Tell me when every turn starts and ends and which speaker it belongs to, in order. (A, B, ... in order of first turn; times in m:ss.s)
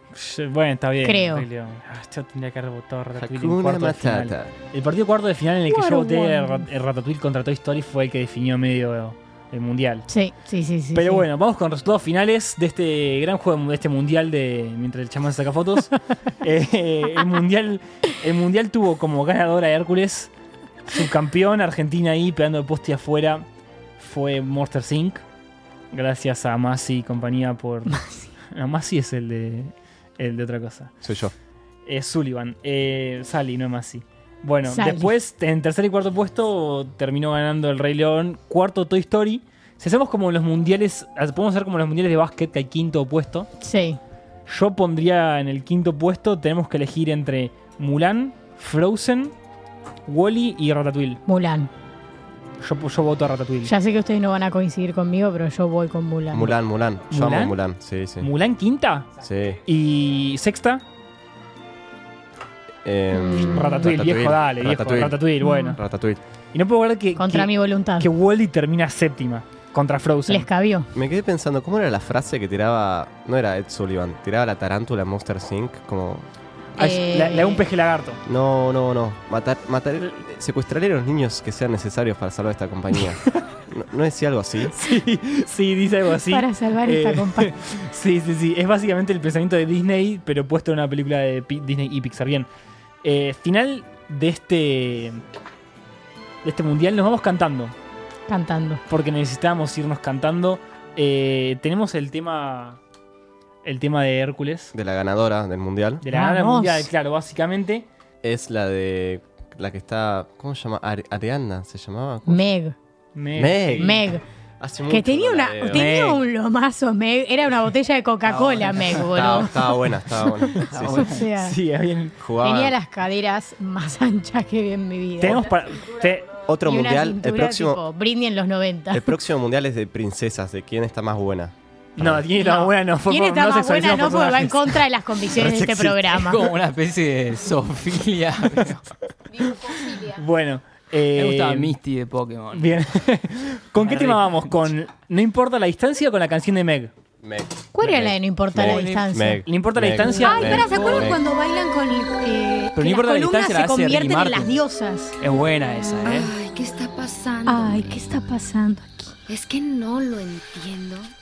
0:00.1-0:10.0 A
0:01.0-0:01.4 B
0:03.2-0:04.5 C
0:05.7-0:06.7 B
0:10.1-0:11.2 B
0:10.9-0:20.3 A
0:20.9-0:23.4 A
0:24.0-0:25.2 A
0:25.9-0:30.9 A
0:27.9-0:28.3 B
0:31.0-0:31.3 C
0:31.8-0:43.5 A
0:34.6-0:35.1 B
0:43.6-0:44.0 B
0:44.5-0:49.3 A
0:50.1-0:51.2 A
0:51.2-0:51.7 B
0:52.6-0:53.7 A
0:53.6-0:56.5 B
0:56.3-0:58.3 C
0:57.1-0:57.5 A
0:58.2-0:59.1 A
0:59.2-0:59.6 C
0:59.6-1:00.8 A
1:02.8-1:05.2 C
1:03.1-1:03.9 B
1:03.5-1:05.8 A
1:05.4-1:05.8 B
1:05.8-1:06.2 C
1:06.5-1:10.5 A
1:07.2-1:08.1 B
1:10.3-1:10.9 B
1:10.9-1:16.2 C
1:16.8-1:17.6 B
1:16.8-1:18.2 A
1:18.2-1:24.7 C
1:24.7-1:32.5 A
1:26.1-1:27.5 B
1:33.0-1:35.2 A
1:36.4-1:37.7 A
1:38.3-1:38.8 B
1:38.9-1:42.8 A
1:43.6-1:44.7 A
1:44.7-1:46.0 C
1:46.0-1:47.8 A
1:46.1-1:46.9 B
1:48.2-1:52.5 C
1:52.3-1:52.8 B
1:53.1-1:54.0 A
1:53.3-1:54.0 C
1:53.8-1:54.2 B
1:54.6-1:55.9 C
1:54.9-1:59.7 B
1:55.7-1:56.2 A
1:58.5-1:59.0 A
1:59.1-2:01.1 C
2:00.3-2:01.6 B
2:00.6-2:02.1 A
2:02.2-2:02.8 C
2:02.4-2:05.4 B
2:05.2-2:06.3 A
2:06.4-2:07.8 C
2:06.6-2:09.1 B
2:08.9-2:12.2 C
2:12.0-2:14.8 A
2:12.4-2:16.4 B
2:15.3-2:16.3 C
2:16.1-2:18.9 D
2:19.4-2:21.7 A
2:21.2-2:22.7 D
2:22.5-2:26.9 A
2:23.8-2:24.4 D
2:27.2-2:31.2 C
2:27.7-2:29.4 B
2:28.6-2:29.0 D
2:29.4-2:30.9 A
2:30.1-2:35.2 B
2:30.7-2:31.1 D
2:32.8-2:34.6 D
2:35.2-2:36.3 D
2:36.0-2:38.4 E
2:37.4-2:39.1 B
2:39.3-2:41.1 E